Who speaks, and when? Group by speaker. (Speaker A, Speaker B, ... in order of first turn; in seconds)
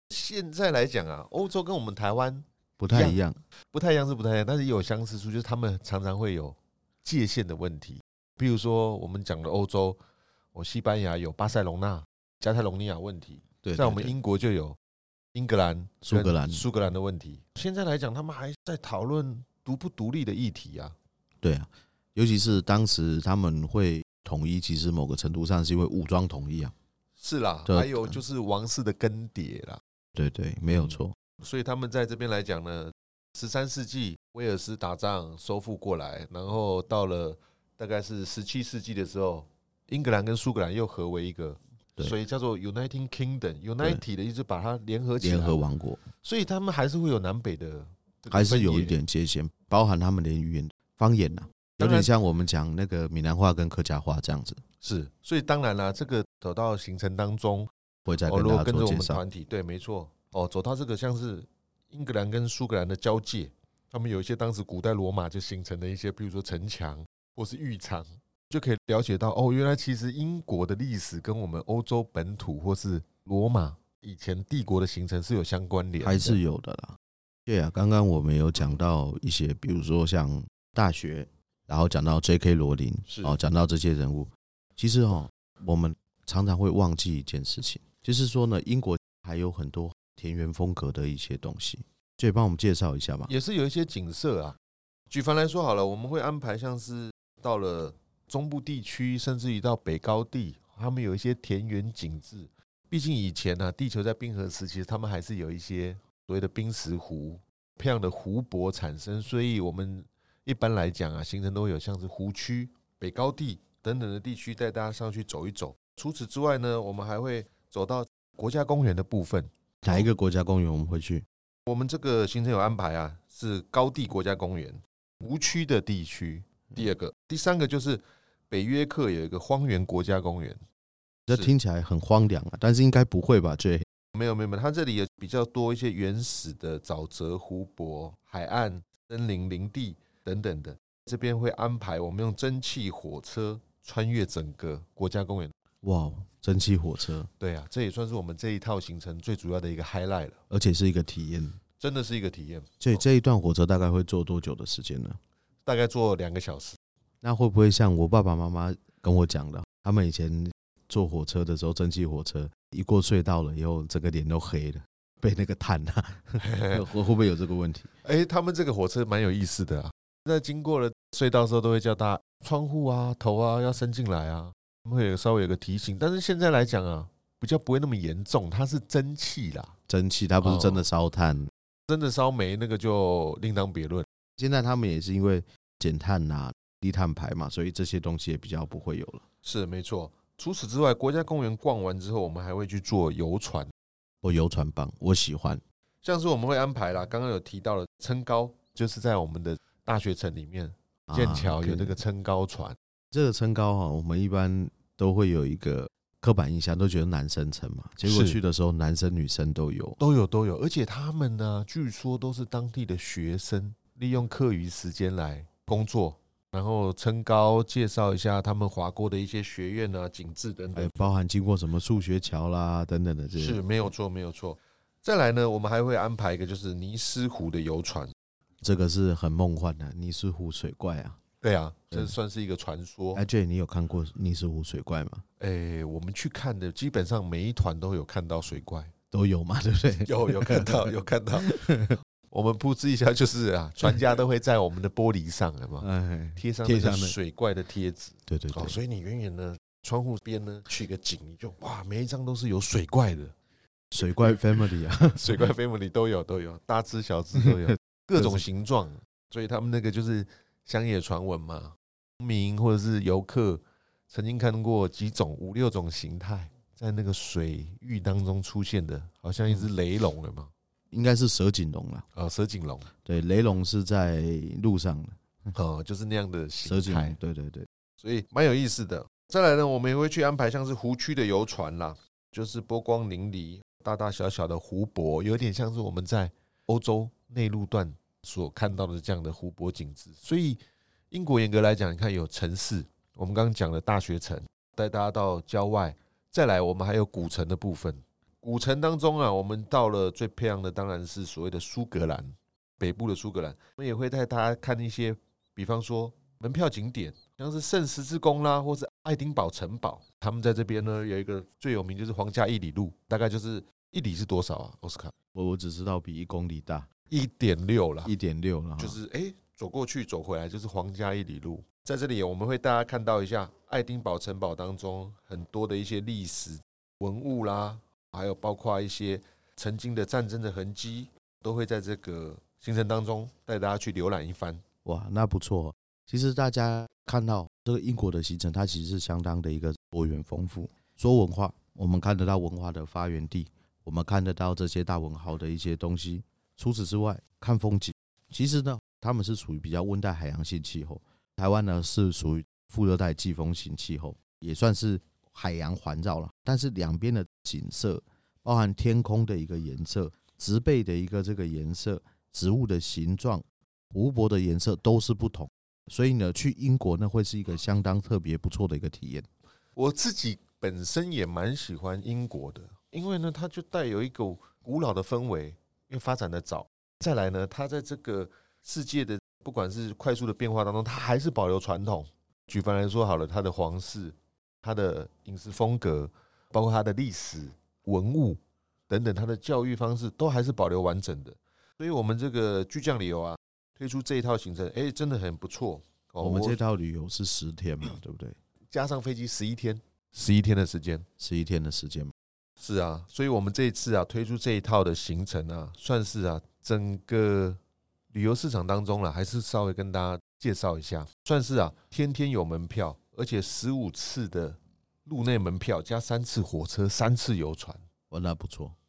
Speaker A: 0.1-3.2, 3.7-10.0, 10.5-14.8, 15.3-20.9, 27.2-29.8, 30.7-45.6, 46.2-49.0, 51.8-52.1, 54.8-57.7, 58.3-76.4, 83.1-83.3, 93.3-94.6, 95.1-120.1, 121.7-130.6, 134.1-145.6, 147.4-150.4, 151.8-153.0, 155.7-156.8, 166.4-166.9, 168.0-179.7, 180.4-180.9, 181.9-184.1, 189.4-193.7, 196.0-202.8, 208.0-208.4, 210.0-221.1, 223.3-228.1, 231.4-233.2, 235.4-238.9, 240.0-241.6, 242.3-253.3, 255.2-270.5, 272.1-272.9, 275.5-277.2, 278.0-315.1, 317.1-318.1, 318.8-334.6, 369.8-396.6, 398.7-401.1, 402.6-407.6, 408.1-417.8
Speaker B: 2.8-3.4, 13.6-14.2, 16.0-16.7, 21.4-26.7, 27.7-28.2, 30.1-31.2, 45.2-46.0, 48.3-54.6, 58.1-59.2, 76.0-93.3, 119.8-121.3, 131.3-133.9, 145.8-147.3, 150.5-151.6, 152.8-155.2, 157.2-167.9, 179.9-181.5, 184.4-189.2, 194.2-195.6, 201.1-202.0, 203.1-210.0, 220.8-223.6, 228.6-231.2, 233.1-235.2, 239.1-242.0, 245.8-247.2, 248.3-248.8, 253.9-255.4, 270.9-272.1, 273.1-275.2, 276.6-277.7, 315.3-316.9, 318.1-319.0, 334.8-369.3, 396.2-398.4, 401.2-402.1, 418.1-418.8